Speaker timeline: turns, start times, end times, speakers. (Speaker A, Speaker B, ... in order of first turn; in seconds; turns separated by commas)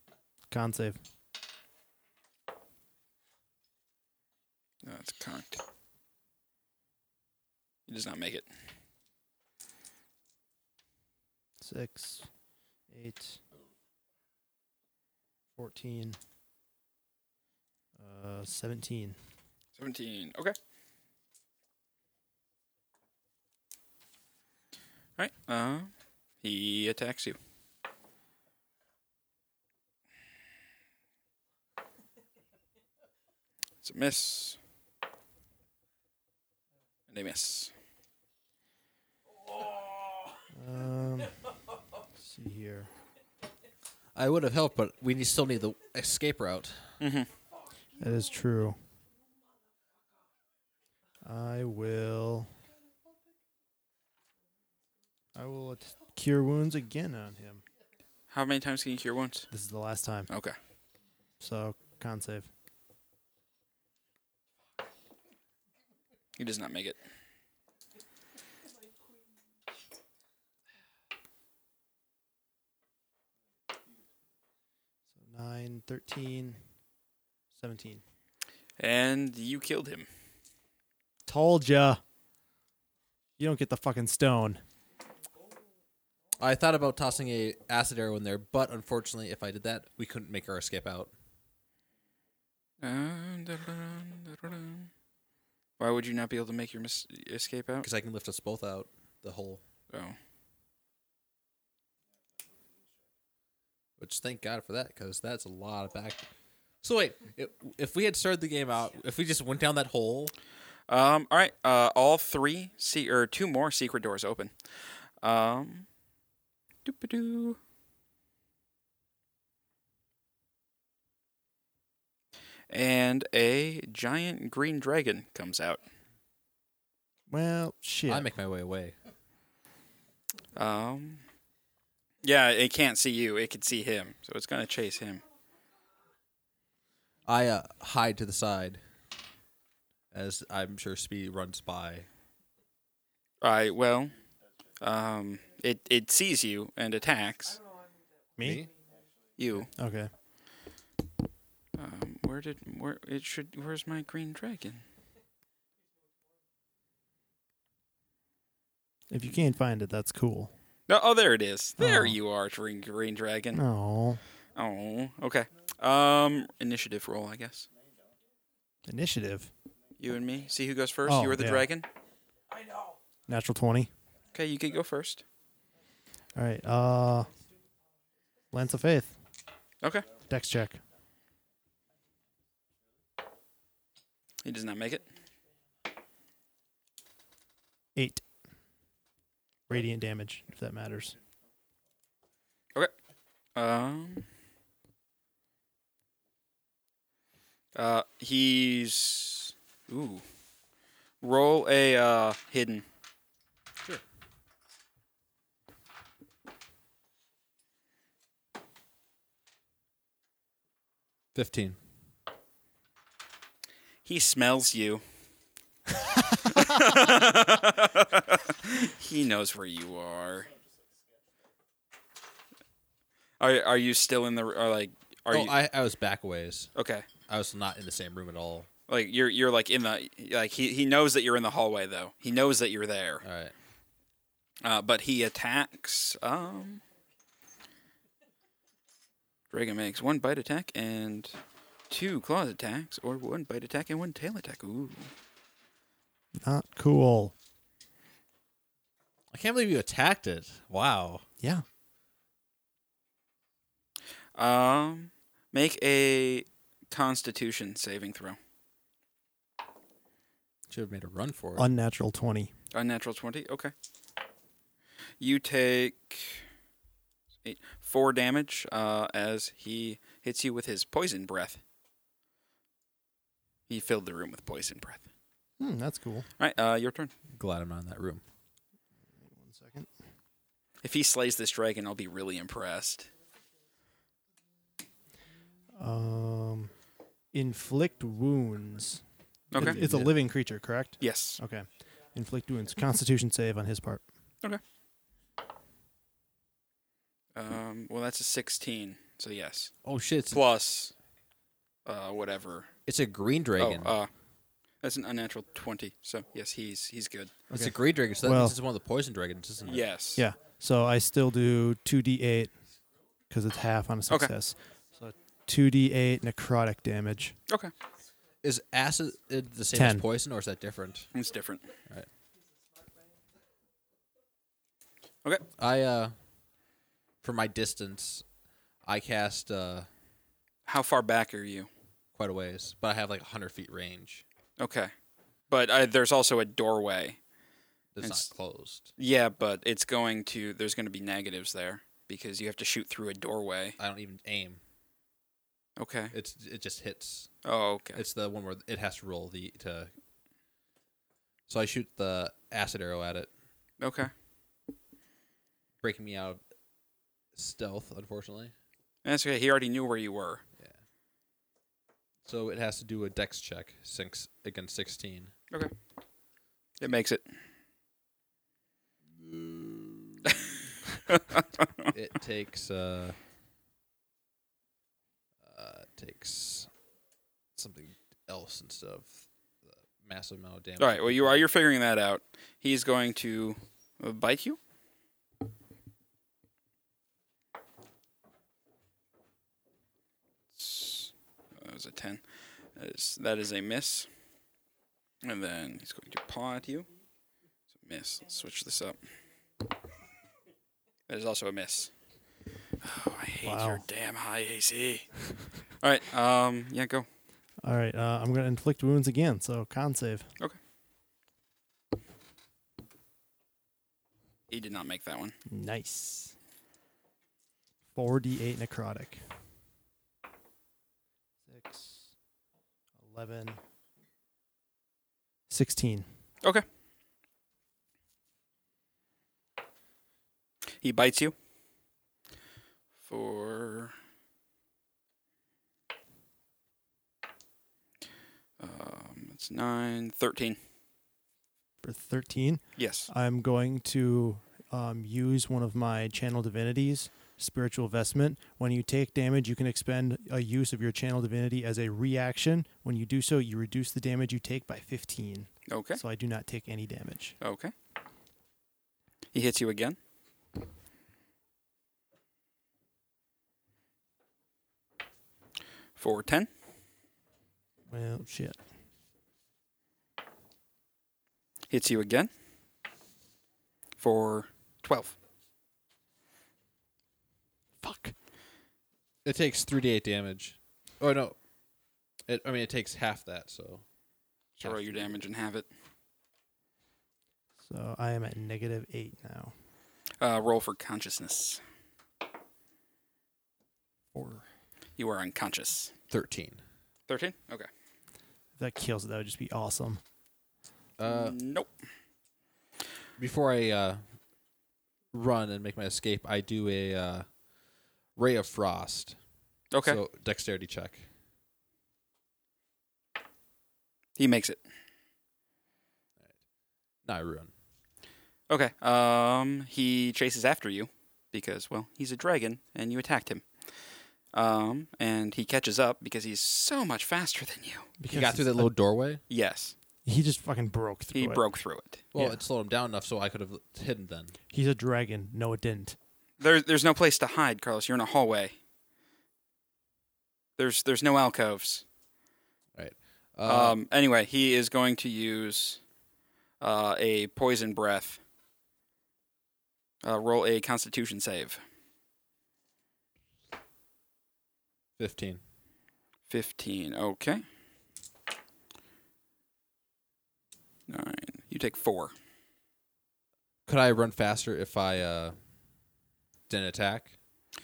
Speaker A: 0.5-1.0, Speaker B: 4.8-5.6, Speaker B: 7.9-8.5, Speaker A: 11.6-12.3, Speaker A: 12.9-13.4, Speaker A: 15.6-16.2, Speaker A: 18.0-19.2, Speaker B: 19.8-20.6, Speaker B: 25.2-25.9, Speaker B: 26.4-27.4, Speaker B: 33.8-34.6, Speaker B: 37.1-37.7, Speaker A: 40.5-41.3, Speaker A: 42.2-42.9, Speaker C: 44.1-47.0, Speaker B: 47.0-47.3, Speaker A: 48.0-48.8, Speaker A: 51.2-52.5, Speaker A: 55.4-57.6, Speaker B: 58.3-59.5, Speaker A: 59.5-60.3, Speaker B: 60.3-60.6, Speaker A: 61.4-62.5, Speaker B: 66.4-67.0, Speaker A: 75.2-76.6, Speaker A: 77.5-78.0, Speaker B: 78.8-80.1, Speaker A: 81.3-82.0, Speaker A: 83.4-84.6, Speaker C: 86.4-91.1, Speaker B: 92.8-94.9, Speaker B: 95.8-97.9, Speaker C: 97.8-99.6, Speaker B: 99.9-100.2, Speaker C: 104.0-106.3, Speaker C: 106.8-110.3, Speaker B: 110.9-114.5, Speaker B: 115.2-115.9, Speaker B: 116.8-117.6, Speaker B: 122.7-125.8, Speaker A: 127.3-128.3, Speaker C: 128.1-129.0, Speaker B: 130.6-131.2, Speaker B: 132.2-135.2, Speaker C: 137.3-138.8, Speaker C: 140.1-142.1, Speaker B: 143.4-144.2, Speaker B: 144.8-147.6, Speaker A: 148.4-148.7, Speaker C: 148.4-148.7, Speaker B: 149.4-149.7, Speaker A: 149.7-150.1, Speaker B: 151.8-154.8, Speaker A: 159.1-160.5, Speaker B: 160.9-163.6, Speaker A: 161.8-162.2, Speaker A: 163.6-164.2, Speaker B: 164.6-167.7, Speaker A: 168.9-169.5, Speaker B: 170.0-171.9, Speaker A: 171.1-171.7, Speaker A: 173.3-173.9, Speaker B: 174.3-175.2, Speaker A: 176.3-177.3, Speaker A: 178.5-179.2, Speaker B: 179.8-180.1, Speaker A: 180.2-180.8, Speaker B: 184.4-185.1, Speaker A: 187.9-188.2, Speaker A: 189.7-191.2, Speaker B: 193.6-194.3, Speaker B: 197.8-200.2, Speaker B: 201.2-202.8, Speaker C: 211.3-211.8, Speaker B: 214.1-215.0, Speaker B: 216.3-220.5, Speaker B: 223.4-225.5, Speaker C: 225.3-226.7, Speaker B: 226.8-227.1, Speaker C: 227.3-228.7, Speaker B: 228.9-233.2, Speaker C: 233.2-233.5, Speaker B: 234.6-236.8, Speaker B: 239.5-241.4, Speaker B: 241.9-245.1, Speaker A: 246.4-247.3, Speaker C: 249.3-251.2, Speaker B: 254.4-258.4, Speaker C: 260.7-261.7, Speaker A: 261.6-262.5, Speaker B: 262.7-263.7, Speaker B: 265.2-266.5, Speaker B: 267.4-271.6, Speaker B: 273.7-275.1, Speaker A: 275.6-276.3, Speaker B: 276.4-277.1, Speaker C: 277.3-278.2, Speaker A: 279.2-279.9, Speaker B: 280.8-283.1, Speaker A: 285.8-286.7, Speaker A: 287.3-289.0, Speaker B: 289.5-289.8, Speaker A: 289.6-294.0, Speaker C: 289.6-290.1, Speaker B: 291.0-291.4, Speaker B: 297.4-299.7, Speaker C: 299.8-300.4, Speaker B: 300.3-300.9, Speaker B: 301.9-302.7, Speaker C: 302.9-303.9, Speaker B: 303.6-304.1, Speaker B: 304.8-307.3, Speaker A: 307.5-308.6, Speaker C: 307.5-309.8, Speaker B: 309.7-310.2, Speaker A: 310.2-312.5, Speaker A: 313.3-317.4, Speaker C: 318.4-321.1, Speaker A: 319.7-320.0, Speaker B: 321.1-321.7, Speaker C: 325.6-326.1, Speaker C: 327.2-328.2, Speaker C: 328.9-329.9, Speaker B: 330.7-331.7, Speaker C: 332.1-334.2, Speaker B: 334.6-334.9, Speaker B: 335.5-337.2, Speaker C: 337.9-338.9, Speaker B: 338.0-338.3, Speaker B: 339.0-343.8, Speaker C: 343.8-344.6, Speaker B: 345.8-346.1, Speaker C: 346.1-347.3, Speaker B: 347.4-348.0, Speaker C: 347.9-349.9, Speaker C: 351.5-353.3, Speaker B: 353.8-354.1, Speaker C: 355.8-356.4, Speaker C: 357.4-358.5, Speaker B: 359.1-360.4, Speaker C: 362.2-365.3, Speaker B: 366.8-367.2, Speaker C: 369.2-370.4, Speaker B: 371.1-371.9, Speaker C: 371.9-373.2, Speaker C: 375.4-376.7, Speaker C: 377.6-381.5, Speaker B: 380.8-384.6, Speaker B: 390.6-392.2, Speaker B: 392.8-394.1, Speaker B: 395.2-396.9, Speaker B: 397.8-399.0, Speaker B: 401.1-401.9, Speaker B: 402.8-405.2, Speaker A: 403.4-403.8, Speaker B: 405.8-407.1, Speaker A: 407.6-410.3, Speaker B: 414.5-415.4, Speaker A: 415.5-416.4, Speaker A: 417.9-419.2, Speaker A: 421.5-422.1, Speaker A: 423.0-423.6, Speaker A: 425.5-426.1, Speaker B: 430.8-431.4, Speaker B: 433.0-433.9, Speaker B: 438.6-440.6, Speaker A: 441.8-457.4, Speaker B: 442.8-443.1, Speaker B: 455.7-456.0, Speaker B: 457.4-457.7, Speaker B: 459.3-460.0, Speaker B: 466.0-466.5, Speaker A: 467.9-468.6, Speaker B: 471.7-472.3, Speaker B: 474.0-475.2, Speaker A: 477.8-478.1, Speaker C: 479.2-481.4, Speaker C: 482.3-483.8, Speaker B: 484.6-485.7, Speaker C: 484.6-485.3, Speaker A: 487.6-489.5, Speaker B: 490.2-491.6, Speaker A: 494.1-494.5, Speaker B: 495.0-495.9, Speaker C: 496.1-496.6, Speaker B: 497.1-497.7, Speaker A: 498.6-500.0, Speaker C: 501.0-501.4, Speaker B: 501.1-501.7, Speaker C: 503.2-504.0, Speaker C: 505.1-507.3, Speaker C: 508.2-509.2, Speaker B: 509.7-510.0, Speaker C: 509.8-511.1, Speaker B: 514.2-514.6, Speaker C: 517.0-517.5, Speaker B: 518.5-523.5, Speaker B: 524.3-527.9, Speaker A: 528.0-528.7, Speaker C: 528.1-529.2, Speaker B: 529.3-529.8, Speaker A: 530.0-531.4, Speaker B: 531.1-532.0, Speaker C: 532.1-534.4, Speaker A: 532.1-532.4, Speaker A: 534.5-536.0, Speaker B: 536.4-538.5, Speaker B: 540.6-541.8, Speaker C: 542.8-543.8, Speaker B: 543.5-545.8, Speaker B: 546.6-548.2, Speaker B: 550.0-551.6, Speaker C: 555.0-555.4, Speaker B: 556.3-557.4, Speaker B: 560.9-562.1, Speaker C: 563.7-565.4, Speaker C: 566.5-567.1